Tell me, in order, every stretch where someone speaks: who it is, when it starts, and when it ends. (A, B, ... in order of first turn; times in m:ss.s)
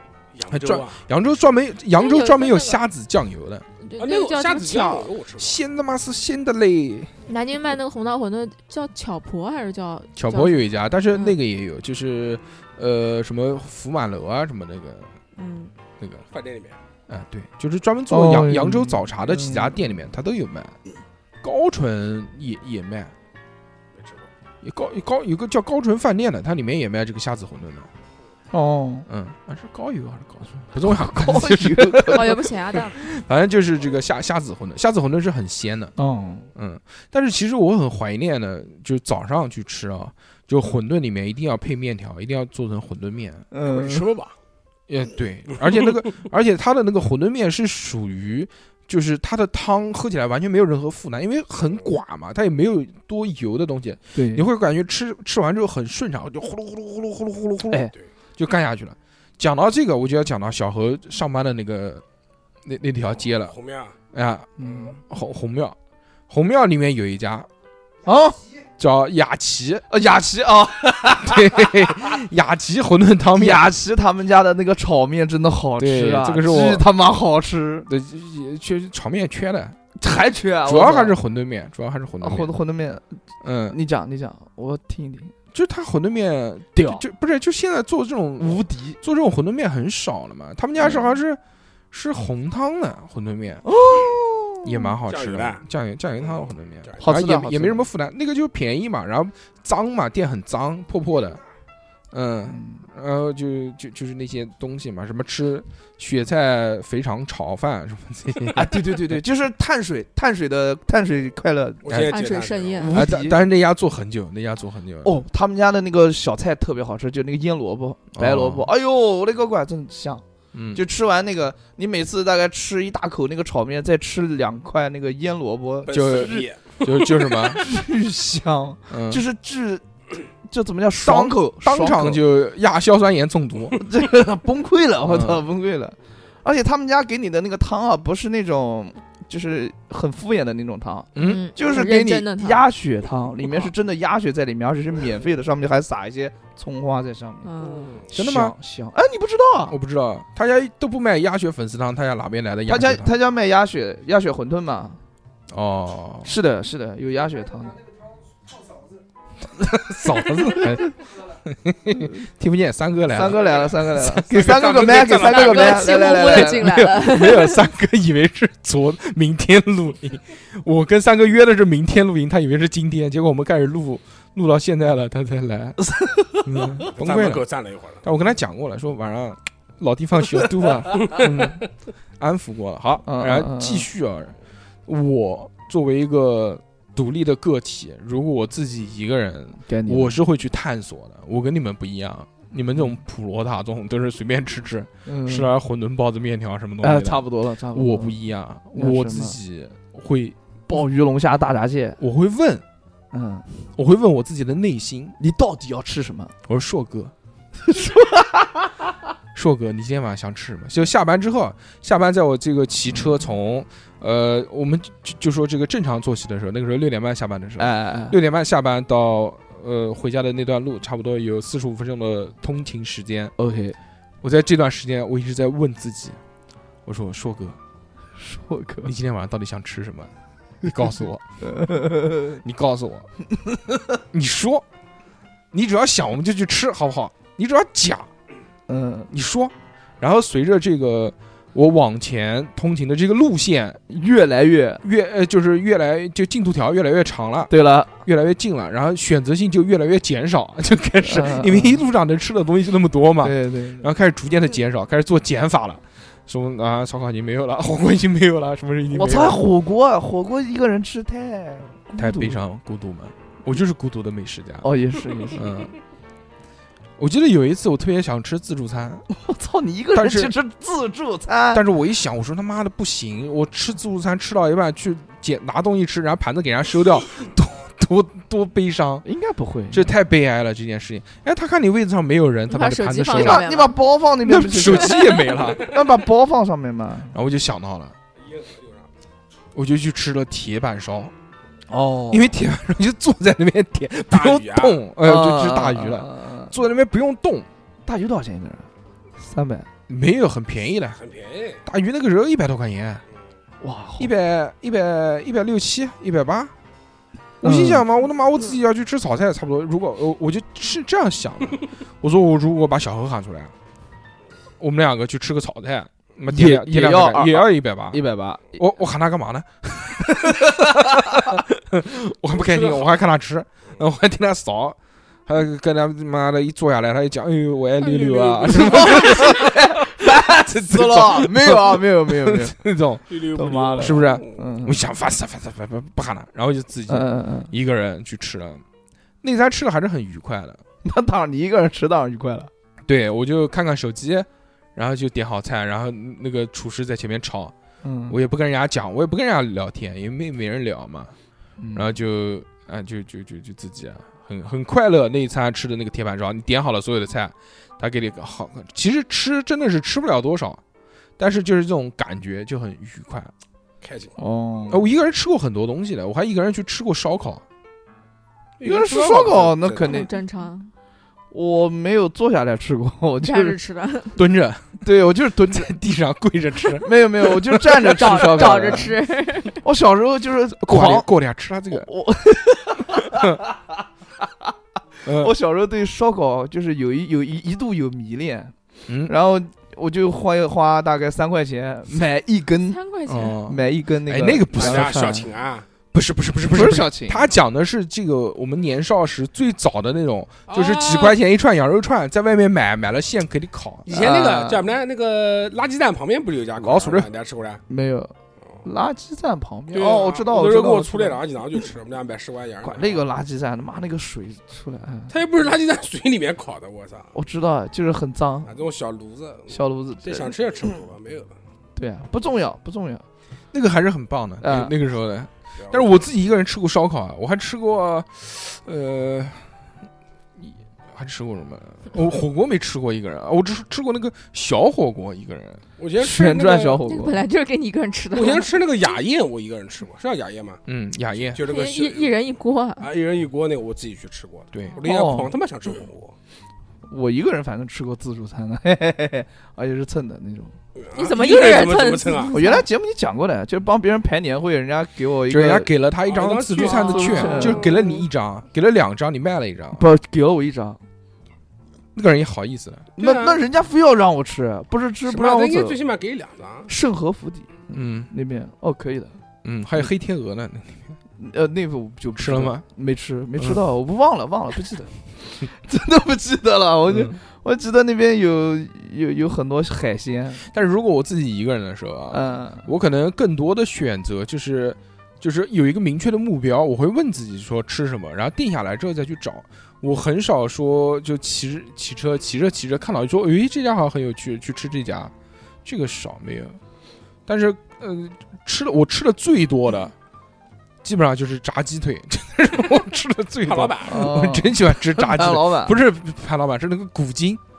0:00.3-0:01.0 A
0:00.5-0:03.6 B
0:01.9-0:02.8 C
0:03.8-0:05.1 C
0:04.0-0:05.6 A
0:05.4-0:07.1 B
0:07.3-0:10.6 C
0:10.2-0:15.1 B
0:11.1-0:11.4 C
0:15.4-0:15.7 C
0:16.3-0:16.8 A
0:17.1-0:20.8 B
0:18.1-0:19.8 D
0:21.4-0:23.1 B
0:23.9-0:24.3 A
0:24.6-0:27.9 B
0:28.5-0:29.1 D
0:29.1-0:35.9 B
0:30.8-0:32.4 D
0:32.0-0:33.0 C
0:36.0-0:36.5 D
0:36.5-0:43.5 B
0:43.5-0:44.1 D
0:43.6-0:44.3 A
0:44.9-0:57.8 B
0:54.1-0:54.4 D
0:58.4-1:02.0 B
1:02.6-1:03.5 B
1:03.3-1:04.0 A
1:04.1-1:05.8 B
1:04.6-1:04.9 D
1:04.6-1:04.9 A
1:06.3-1:07.5 B
1:08.0-1:08.4 D
1:08.8-1:09.8 B
1:09.9-1:11.9 D
1:11.2-1:13.7 B
1:13.4-1:17.9 D
1:15.8-1:16.9 B
1:17.9-1:19.8 B
1:20.0-1:21.2 D
1:20.6-1:22.5 B
1:22.2-1:23.1 D
1:23.4-1:23.8 B
1:23.7-1:25.3 D
1:25.5-1:31.4 B
1:26.7-1:27.0 D
1:28.4-1:29.0 D
1:30.8-1:31.1 D
1:31.9-1:33.6 B
1:33.6-1:34.8 D
1:34.6-1:41.4 B
1:35.1-1:35.6 A
1:36.2-1:37.0 A
1:37.0-1:37.8 D
1:42.1-1:49.1 B
1:42.5-1:42.8 D
1:48.5-1:51.8 D
1:51.8-1:52.9 A
1:51.8-1:52.1 B
1:52.1-1:53.0 C
1:52.8-1:53.4 D
1:52.9-1:55.2 B
1:55.0-2:00.2 D
1:58.1-1:58.7 B
2:00.5-2:00.8 B
2:00.7-2:06.4 D
2:05.8-2:07.6 A
2:05.9-2:07.6 B
2:07.5-2:09.8 D
2:08.9-2:09.2 B
2:10.5-2:12.2 D
2:11.0-2:13.8 B
2:13.8-2:27.5 D
2:15.1-2:15.4 B
2:21.1-2:21.5 B
2:21.2-2:22.7 C
2:27.4-2:28.0 C
2:27.6-2:28.1 A
2:28.1-2:29.8 D
2:28.1-2:28.5 B
2:29.7-2:33.1 B
2:32.7-2:35.0 D
2:35.5-2:36.3 B
2:36.2-2:37.8 D
2:39.6-2:44.4 B
2:43.1-2:46.7 D
2:44.3-2:46.1 A
2:44.9-2:47.6 C
2:46.1-2:55.8 B
2:55.8-2:56.8 D
2:56.3-2:57.4 B
2:56.9-2:58.0 A
2:58.0-3:01.6 B
3:01.0-3:01.4 A
3:02.2-3:04.3 B
3:03.0-3:03.9 D
3:04.8-3:20.4 B
3:09.6-3:10.2 D
3:15.0-3:15.5 D
3:16.8-3:18.2 D
3:18.7-3:19.4 D
3:20.7-3:22.0 D
3:22.0-3:22.6 B
3:23.1-3:23.4 D
3:23.8-3:25.2 B
3:25.2-3:26.3 D
3:26.5-3:27.1 B
3:27.6-3:28.7 D
3:29.3-3:43.3 B
3:37.6-3:38.2 D
3:43.4-3:43.8 D
3:44.2-3:46.2 B
3:46.8-3:47.6 B
3:48.2-3:48.9 D
3:48.8-3:50.1 B
3:50.6-3:51.2 B
3:51.4-3:52.4 D
3:52.4-3:53.1 B
3:54.1-3:54.6 B
3:55.5-3:58.1 B
3:58.7-3:59.1 D
3:59.1-4:03.8 B
4:03.9-4:04.8 D
4:04.8-4:07.5 B
4:07.5-4:07.9 D
4:08.0-4:19.4 B
4:11.0-4:11.8 D
4:13.2-4:13.9 D
4:18.9-4:22.4 D
4:22.0-4:24.6 B
4:24.6-4:25.4 D
4:25.3-4:25.7 B
4:27.0-4:29.0 B
4:29.1-4:31.6 D
4:29.9-4:30.3 B
4:31.5-4:39.0 B
4:39.0-4:39.9 D
4:39.7-4:43.4 B
4:42.5-4:43.7 C
4:43.1-4:47.1 D
4:44.2-4:45.7 B
4:44.6-4:45.2 C
4:47.1-4:47.9 B
4:48.2-4:48.9 A
4:49.5-4:51.1 B
4:51.7-4:52.3 D
4:52.1-4:57.5 B
4:54.1-4:54.8 A
4:55.0-4:56.5 D
4:57.8-4:58.7 D
4:59.2-4:59.7 D
4:59.9-5:01.0 B
5:01.0-5:01.6 A
5:01.6-5:03.0 B
5:03.6-5:04.1 D
5:04.0-5:06.5 B
5:07.4-5:13.5 B
5:07.4-5:07.8 D
5:14.6-5:18.0 B
5:16.3-5:18.5 D
5:18.5-5:33.0 B
5:20.2-5:20.6 D
5:22.3-5:22.9 A
5:27.8-5:29.4 A
5:28.5-5:32.6 D
5:33.1-5:34.4 A
5:33.3-5:34.8 D
5:33.8-5:38.6 B
5:36.9-5:37.5 D
5:39.2-5:40.6 B
5:40.8-5:42.5 D
5:42.9-5:47.5 B
5:47.8-5:48.2 D
5:48.1-5:51.1 B
5:51.6-5:51.9 D
5:51.7-6:00.6 B
6:01.2-6:03.3 B
6:03.8-6:04.1 A
6:04.2-6:04.8 D
6:04.7-6:07.4 B
6:08.6-6:10.0 A
6:08.6-6:10.1 D
6:09.8-6:10.7 C
6:11.3-6:13.6 D
6:13.2-6:14.2 C
6:14.2-6:14.8 B
6:14.8-6:15.7 D
6:15.5-6:18.8 B
6:16.8-6:19.0 D
6:17.8-6:19.6 C
6:19.6-6:21.1 D
6:20.6-6:21.9 B
6:21.7-6:23.7 D
6:25.0-6:25.3 B
6:25.2-6:28.5 D
6:28.9-6:29.1 B
6:29.0-6:32.8 D
6:32.7-6:33.4 C
6:33.1-6:35.2 B
6:33.4-6:35.3 D
6:34.5-6:35.6 A
6:35.9-6:43.9 B
6:36.5-6:37.3 D
6:40.5-6:41.2 A
6:43.8-6:47.6 A
6:43.9-6:44.7 D
6:46.6-6:47.1 B
6:47.7-6:51.2 D
6:49.7-6:53.0 A
6:52.6-6:55.1 D
6:55.1-6:57.1 A
6:57.1-6:58.5 D
6:58.4-7:01.3 A
6:59.5-7:00.3 D
7:01.8-7:03.0 D
7:03.5-7:09.4 B
7:04.4-7:04.7 D
7:05.6-7:06.0 A
7:10.4-7:15.6 B
7:15.8-7:16.8 A
7:16.0-7:17.2 D
7:16.8-7:18.5 C
7:18.1-7:20.6 A
7:20.7-7:21.4 B
7:21.2-7:22.2 A
7:21.4-7:22.9 C
7:22.8-7:26.1 A
7:24.5-7:24.8 B
7:24.8-7:25.3 D
7:26.9-7:30.5 D
7:30.8-7:32.4 A
7:30.9-7:32.6 C
7:32.3-7:35.7 D
7:35.3-7:39.8 B
7:36.1-7:38.0 A
7:36.6-7:37.6 C
7:36.9-7:37.6 D
7:39.7-7:40.8 D
7:41.9-7:42.9 B
7:43.0-7:45.8 D
7:43.0-7:43.4 A
7:45.0-7:46.7 A
7:46.7-7:49.2 D
7:47.7-7:48.1 B
7:49.4-7:51.0 B
7:51.2-8:00.4 D
7:52.2-7:52.6 B
7:56.9-7:57.2 B
8:00.5-8:15.1 B
8:02.1-8:02.7 D
8:15.6-8:16.6 B
8:17.3-8:19.9 B
8:20.8-8:27.4 B
8:23.4-8:24.1 A
8:23.8-8:25.8 D